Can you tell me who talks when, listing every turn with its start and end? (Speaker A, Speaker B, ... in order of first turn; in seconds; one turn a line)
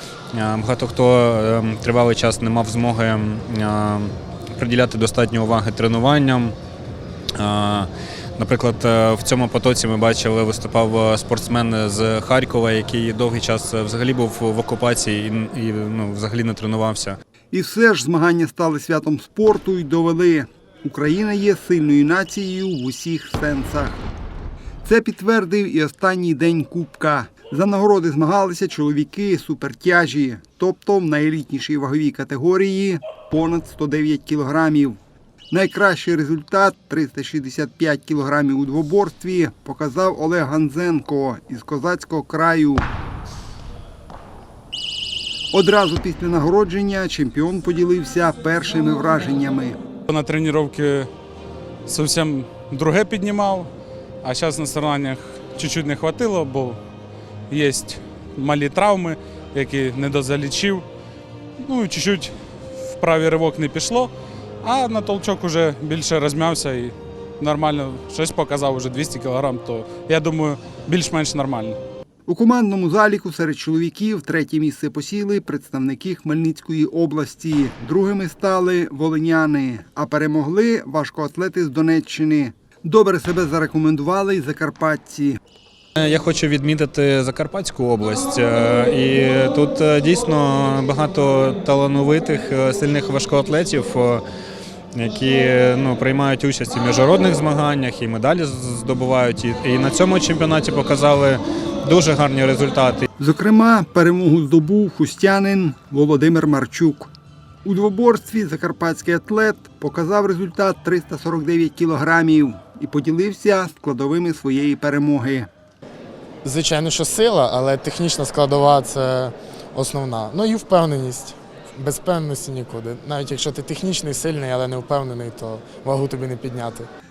Speaker A: 0.3-6.5
Speaker A: 7.3-17.2
Speaker B: 17.5-24.0
Speaker B: 24.8-35.0
Speaker B: 35.5-42.9
Speaker B: 45.5-49.8
Speaker C: 50.1-51.1
Speaker C: 51.8-53.7
Speaker C: 54.2-56.8
Speaker C: 57.5-60.8
Speaker C: 61.6-62.3
Speaker C: 62.8-64.1
Speaker C: 64.6-71.8
Speaker B: 72.3-85.4
Speaker A: 86.0-94.2
Speaker A: 94.9-103.0
Speaker B: 103.2-107.1
Speaker B: 107.6-115.5
Speaker D: 116.4-126.9